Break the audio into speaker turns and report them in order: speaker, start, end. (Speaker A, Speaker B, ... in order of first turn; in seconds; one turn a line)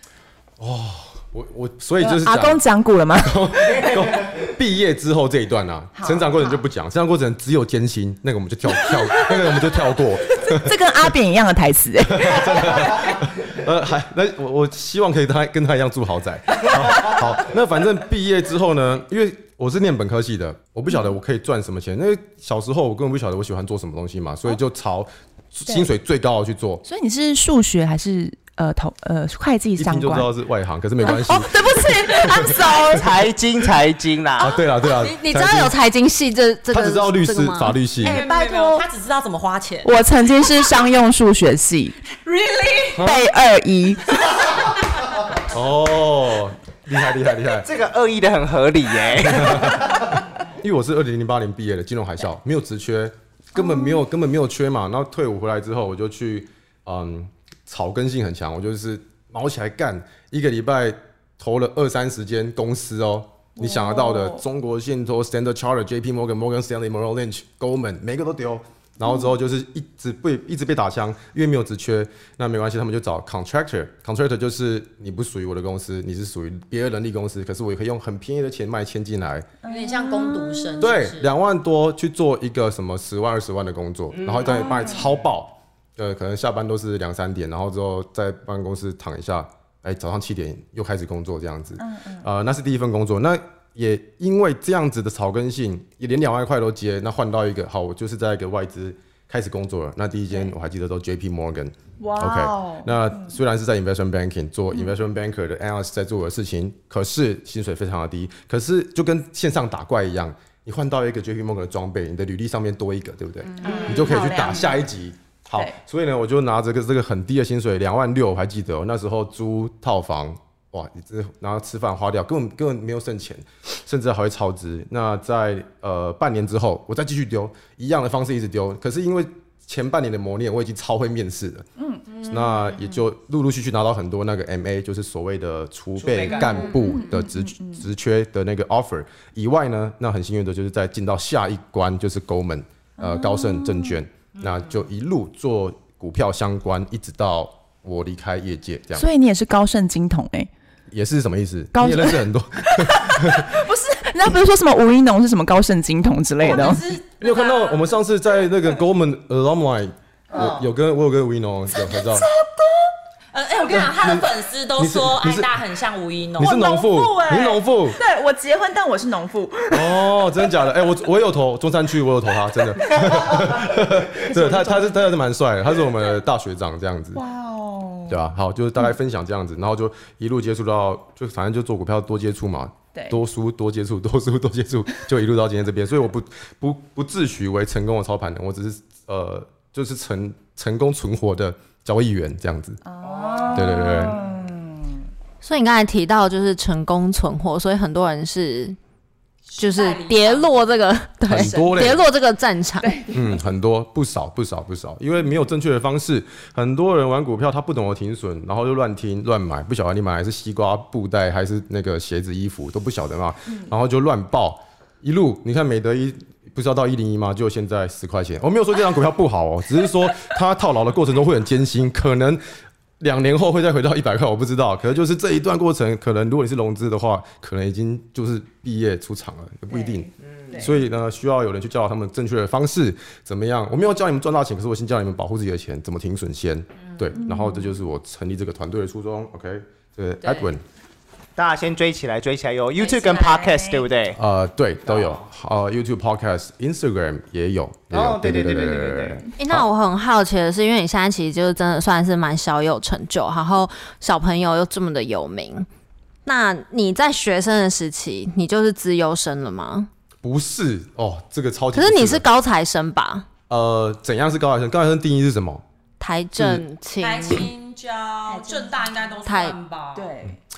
Speaker A: 0.6-2.6
Speaker B: 2.0-4.0
Speaker A: 3.2-10.8
Speaker B: 6.0-6.6
Speaker B: 10.5-13.0
Speaker A: 12.1-26.8
Speaker B: 26.9-30.3
Speaker A: 29.8-32.6
Speaker B: 31.0-33.1
Speaker C: 32.7-34.5
Speaker A: 34.4-35.7
Speaker D: 34.8-37.8
Speaker A: 36.7-38.2
Speaker E: 38.0-39.9
Speaker B: 38.0-38.9
Speaker B: 39.8-42.0
Speaker E: 42.1-43.0
Speaker A: 42.9-43.3
Speaker B: 42.9-44.5
Speaker A: 45.4-47.7
Speaker C: 47.6-50.0
Speaker A: 49.2-79.5
Speaker B: 53.6-54.0
Speaker B: 63.6-64.4
Speaker B: 79.6-80.9
Speaker E: 79.7-81.3
Speaker A: 80.8-131.7
Speaker C: 84.1-84.7
Speaker B: 84.5-85.1
Speaker B: 91.8-92.2
Speaker B: 102.0-103.0
Speaker D: 113.5-114.8
Speaker B: 113.6-114.4
Speaker B: 131.8-132.0
Speaker E: 132.1-132.8
Speaker A: 132.2-149.1
Speaker C: 136.0-136.7
Speaker B: 136.8-137.8
Speaker B: 143.0-144.0
Speaker B: 148.9-150.5
Speaker A: 150.9-153.6
Speaker B: 151.7-156.9
Speaker E: 156.4-157.8
Speaker A: 156.4-162.3
Speaker B: 160.3-160.7
Speaker B: 161.8-162.9
Speaker E: 163.3-166.6
Speaker A: 163.7-165.5
Speaker A: 166.4-168.0
Speaker B: 166.4-170.0
Speaker A: 169.7-177.2
Speaker B: 173.0-173.4
Speaker B: 174.3-174.9
Speaker B: 177.1-178.2
Speaker A: 178.1-192.8
Speaker B: 192.8-195.0
Speaker E: 193.0-194.1
Speaker A: 193.5-194.2
Speaker D: 195.4-198.8
Speaker E: 199.5-200.5
Speaker D: 199.6-202.9
Speaker A: 201.3-202.0
Speaker B: 202.8-203.3
Speaker A: 203.1-222.4
Speaker A: 223.0-240.6
Speaker B: 229.7-230.8
Speaker C: 230.3-230.6
Speaker B: 237.2-237.7
Speaker C: 241.3-244.2
Speaker E: 242.9-243.6
Speaker A: 244.1-249.7
Speaker C: 247.9-249.2
Speaker D: 249.4-255.7
Speaker D: 256.2-259.9
Speaker A: 260.2-262.2
Speaker D: 261.7-263.3
Speaker A: 263.5-265.6
Speaker D: 266.0-267.5
Speaker A: 266.4-266.6
Speaker E: 267.0-270.1
Speaker B: 268.3-268.8
Speaker D: 269.2-269.6
Speaker B: 269.9-270.4